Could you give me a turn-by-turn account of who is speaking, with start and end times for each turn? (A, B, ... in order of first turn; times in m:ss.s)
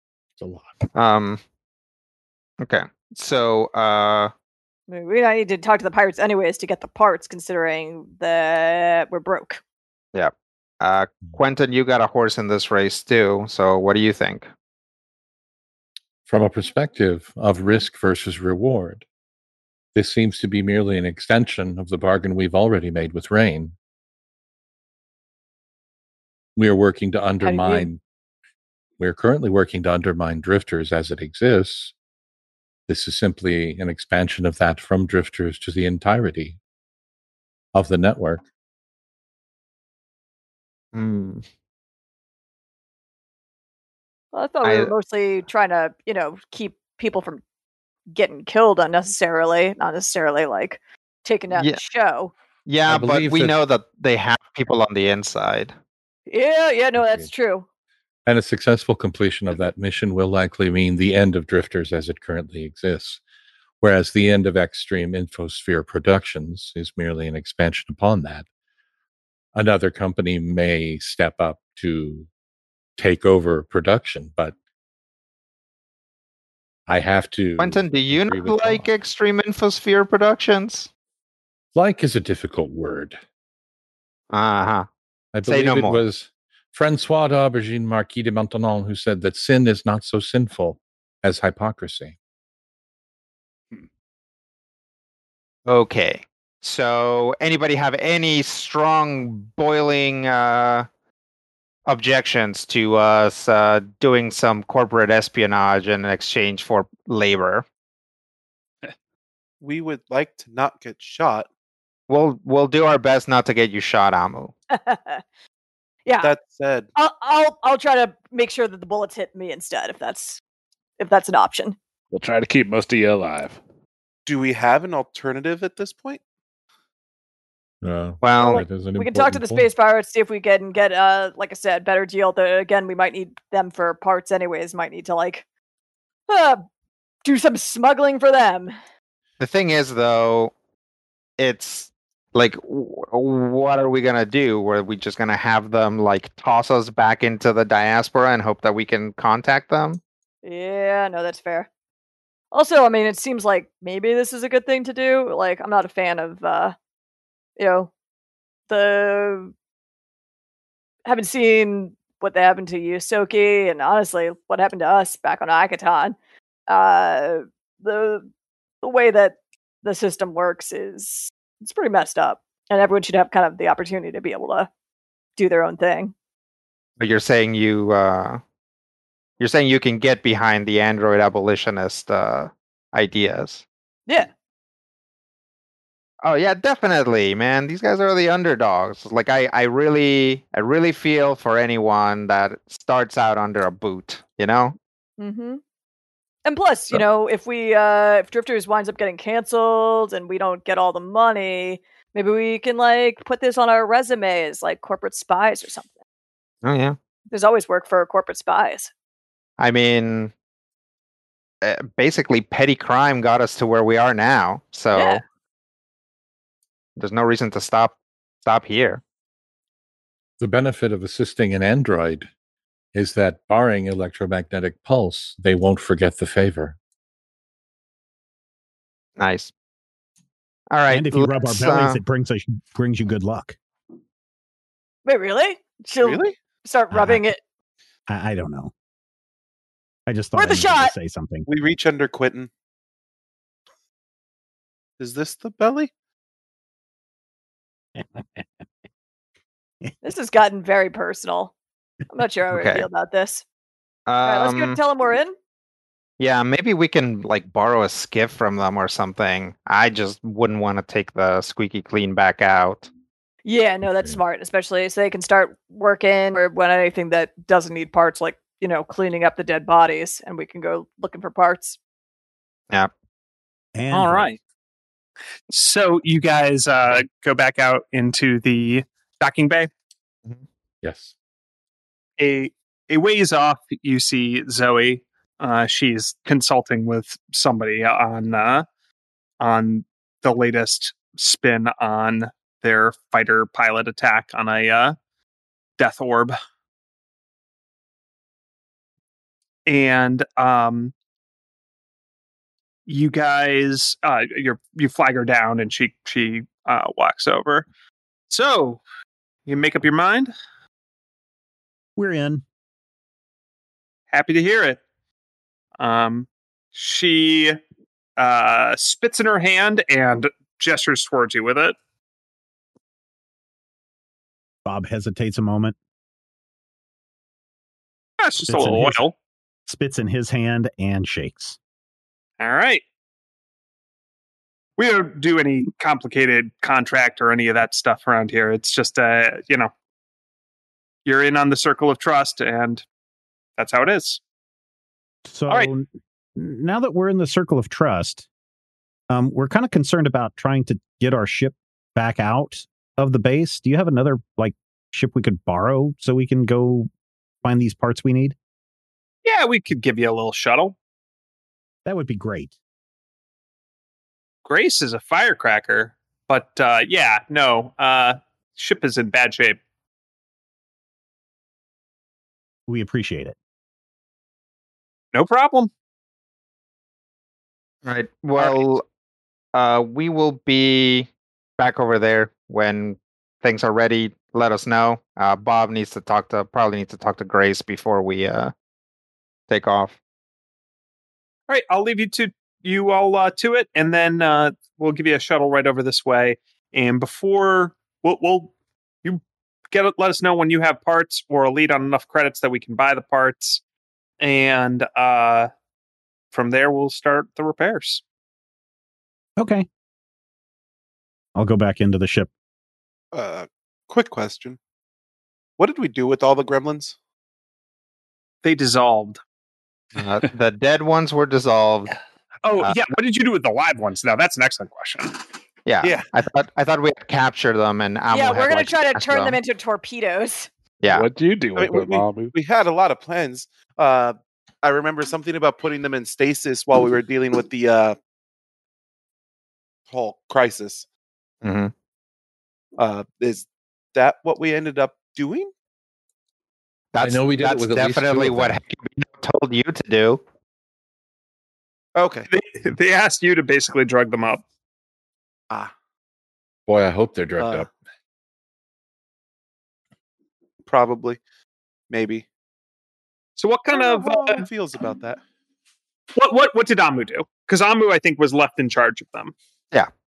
0:00.4-0:00.7 A
0:00.9-0:01.4 B
0:02.6-0:04.3 B
0:04.9-0:09.6 C
0:10.1-0:14.5 B
0:16.2-0:19.0 A
0:19.9-0:23.7 A
0:26.6-0:28.0 A
0:27.4-0:27.9 C
0:29.0-0:31.9 A
0:32.9-0:36.6 A
0:37.7-0:38.4 A
0:40.9-0:41.4 B
0:44.3-0:47.4 C
0:44.6-0:44.9 B
0:48.1-0:52.3 C
0:51.5-0:51.8 B
0:52.6-0:55.7 B
0:52.9-0:53.5 A
0:56.3-0:57.6 C
0:57.0-0:57.3 A
0:58.2-1:03.2 A
1:03.8-1:08.4 A
1:09.5-1:12.3 A
1:13.0-1:14.5 A
1:16.9-1:18.9 A
1:17.6-1:20.9 B
1:21.7-1:23.2 A
1:24.3-1:24.9 B
1:25.3-1:32.2 A
1:25.4-1:26.0 B
1:35.6-1:40.9 B
1:41.8-1:47.6 B
1:49.6-1:51.5 D
1:52.1-1:54.5 B
1:54.7-1:55.2 C
1:56.0-1:56.3 C
1:56.2-1:56.9 D
1:57.0-2:00.4 C
2:01.0-2:01.8 C
2:02.1-2:03.6 E
2:04.2-2:06.2 D
2:07.8-2:09.7 A
2:08.2-2:08.6 B
2:08.4-2:15.4 C
2:16.3-2:16.6 C
2:17.2-2:18.7 C
2:19.4-2:20.5 B
2:21.4-2:30.0 B
2:30.4-2:31.7 C
2:32.5-2:36.8 C
2:37.6-2:37.9 C
2:38.7-2:39.5 C
2:41.0-2:46.2 C
2:46.7-2:48.3 C
2:48.8-2:54.7 C
2:55.4-2:56.1 C
2:57.0-2:58.4 B
2:59.4-3:03.6 B
3:06.2-3:14.8 B
3:15.2-3:15.6 C
3:16.4-3:25.9 C
3:26.6-3:27.0 B
3:27.3-3:28.9 C
3:29.6-3:30.3 B
3:31.6-3:35.2 B
3:34.9-3:35.2 C
3:37.0-3:39.0 B
3:40.4-3:42.3 A
3:42.9-3:46.8 A
3:49.2-3:49.5 B
3:50.7-3:52.0 B
3:50.9-3:53.6 F
3:55.0-3:57.4 C
3:56.0-3:56.3 D
3:56.9-3:57.2 F
3:58.1-3:58.7 F
4:00.1-4:01.5 F
4:00.4-4:00.9 C
4:01.5-4:02.5 D
4:05.0-4:05.9 D
4:08.0-4:08.4 F
4:10.0-4:11.5 C
4:12.1-4:13.4 C
4:12.5-4:12.9 B
4:14.1-4:14.8 B
4:14.2-4:15.4 C
4:16.2-4:22.9 B
4:23.4-4:31.8 C
4:33.7-4:34.3 F
4:33.9-4:34.4 G
4:35.5-4:39.7 G
4:40.8-4:41.1 A
4:42.2-4:48.6 G
4:49.4-4:55.0 G
4:55.8-4:56.3 G
4:59.6-5:00.9 G
5:02.9-5:07.6 G
5:08.3-5:08.8 G
5:09.4-5:10.3 G
5:12.0-5:12.4 F
5:14.1-5:14.8 G
5:15.8-5:17.6 G
5:18.2-5:21.7 G
5:24.6-5:25.7 F
5:28.2-5:29.1 G
5:28.5-5:29.0 F
5:29.7-5:31.6 F
5:32.4-5:32.8 G
5:34.8-5:39.7 G
5:41.0-5:42.8 G
5:43.6-5:44.2 G
5:45.2-5:48.2 F
5:49.1-5:56.9 F
5:57.4-5:58.4 F
5:59.2-6:00.8 G
6:01.8-6:02.5 F
6:04.4-6:09.6 G
6:12.7-6:13.4 F
6:15.1-6:15.7 G
6:17.8-6:18.8 B
6:18.4-6:18.6 G
6:19.5-6:28.5 B
6:29.5-6:30.0 B
6:31.5-6:38.5 G
6:39.7-6:43.6 G
6:44.2-6:45.5 G
6:46.3-6:48.0 G
6:49.4-6:49.6 F
6:51.4-6:52.3 F
6:53.1-6:54.6 D
6:55.6-6:57.0 D
6:58.4-6:59.2 G
7:00.0-7:01.9 B
7:02.4-7:05.2 G
7:05.6-7:09.4 B
7:05.8-7:06.1 D
7:08.1-7:10.5 C
7:10.9-7:12.3 E
7:11.6-7:18.0 D
7:19.9-7:20.8 D
7:21.4-7:21.7 B
7:22.8-7:25.5 D
7:26.9-7:30.2 B
7:27.0-7:28.6 A
7:32.0-7:32.3 D
7:32.3-7:34.4 G
7:36.7-7:37.7 A
7:37.4-7:37.7 D
7:40.6-7:41.2 D
7:41.9-7:42.2 D
7:43.4-7:44.4 G
7:43.7-7:45.2 D
7:46.2-7:49.3 G